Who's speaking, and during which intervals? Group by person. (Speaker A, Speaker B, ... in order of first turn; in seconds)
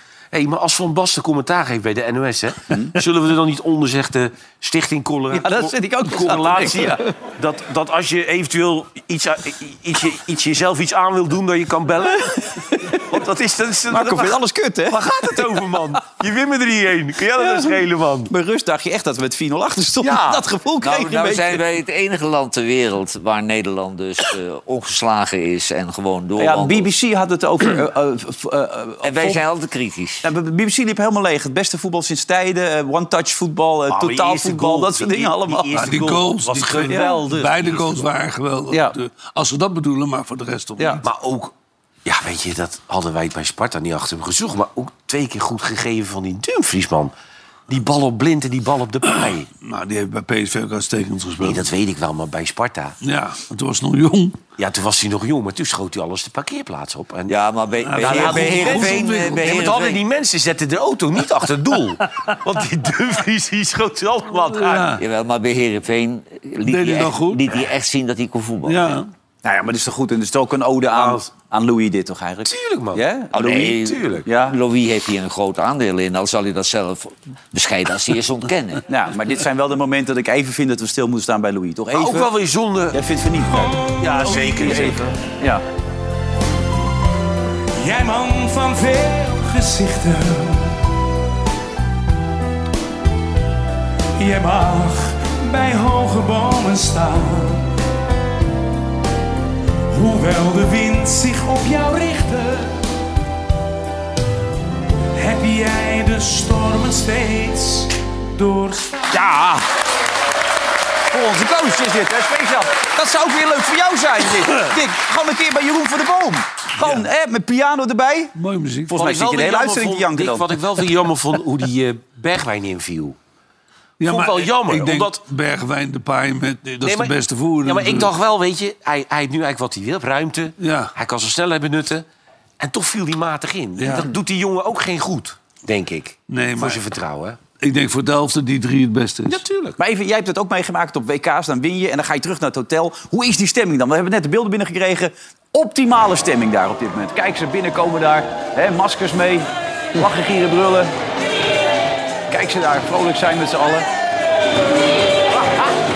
Speaker A: 0.3-18.3, 20.0-20.4, 33.9-38.1, 41.0-41.5, 42.0-47.1, 47.7-49.5, 51.4-53.0, 54.6-57.4, 57.9-64.9, 70.9-71.2, 72.5-74.2, 81.9-83.0, 84.0-85.1, 118.9-123.2, 124.0-125.2, 126.8-132.0, 132.6-137.4, 139.3-139.8
Speaker B: 5.3-7.0, 12.8-13.2, 13.9-15.5, 17.4-17.8, 18.3-21.6, 26.4-29.4, 30.2-36.1, 36.9-37.3, 38.7-39.0, 69.4-73.7, 74.2-74.6, 78.9-82.3, 82.9-85.6, 109.1-109.7, 111.1-118.3, 118.9-120.6, 139.8-150.9, 152.3-153.9
Speaker C: 20.8-26.9, 29.0-30.2, 57.3-60.0, 65.0-69.0, 73.3-78.8
Speaker D: 35.8-41.0, 49.6-51.6, 53.0-54.4, 57.8-59.5, 64.4-65.0, 66.7-67.4, 68.7-69.1, 118.4-119.0, 124.0-128.1, 130.6-130.9, 133.8-134.1, 136.3-136.8, 137.6-139.4
Speaker E: 83.5-84.9, 87.8-90.8, 94.2-97.7, 99.9-102.8, 105.1-109.2